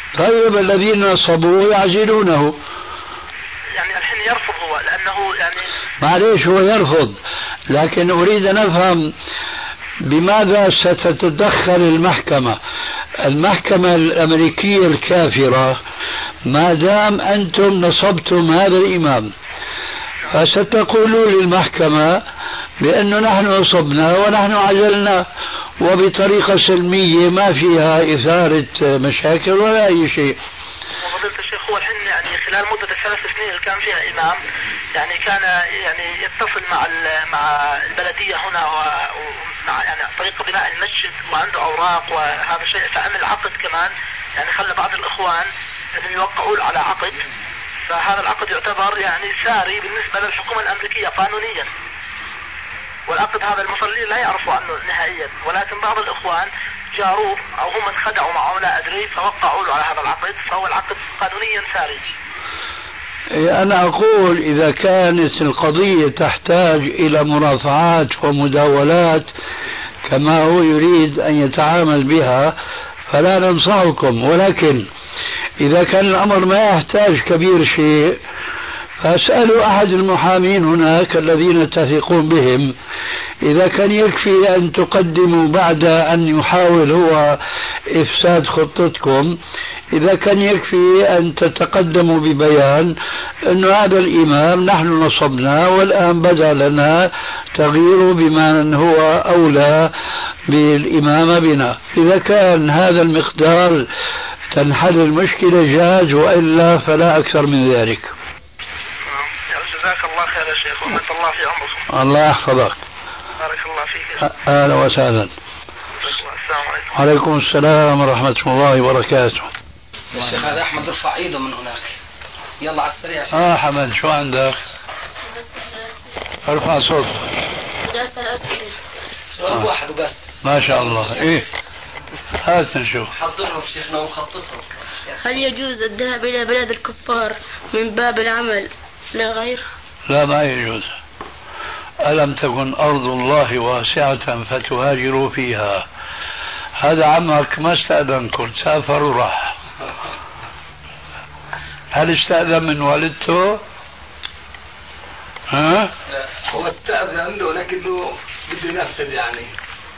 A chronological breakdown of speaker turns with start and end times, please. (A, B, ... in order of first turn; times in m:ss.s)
0:00.2-0:02.6 A
0:03.8-0:05.7 B
0:06.0-0:07.2 A
0:07.7-0:09.1 A
0:10.0-0:12.6 A
0:13.2-0:15.8 A
0:16.5-0:19.3 A
0:20.3-0:22.2 A
0:22.8-0:25.3 A
0:25.8-0:30.4 A
0:31.0-0:34.4 B
0:34.9-0:47.2 B
0:47.9-0:51.7 B
0:53.1-1:02.0 B
1:03.3-1:09.3 A
1:10.1-1:12.6 A
1:13.1-1:14.9 A
1:15.6-1:18.2 A
1:19.0-1:22.8 A
1:23.4-1:27.4 A
1:27.9-1:29.4 A
1:29.9-1:39.9 A
1:40.5-1:43.9 A
1:44.5-1:48.1 A
1:49.1-1:51.8 B
1:51.9-1:52.8 A
1:53.4-1:54.2 B
1:54.2-1:55.3 A
1:56.0-1:56.9 B
1:56.9-1:59.5 A
2:00.2-2:01.9 C
2:02.6-2:03.3 C
2:03.3-2:04.6 A
2:05.1-2:06.0 D
2:06.5-2:07.3 A
2:07.8-2:08.8 D
2:09.3-2:11.1 C
2:10.4-2:11.5 A
2:12.4-2:13.1 A
2:13.2-2:14.6 C
2:15.2-2:19.6 D
2:20.1-2:20.9 A
2:22.0-2:25.9 A
2:26.8-2:29.5 A
2:31.9-2:33.6 A
2:35.5-2:35.9 A
2:36.4-2:39.5 E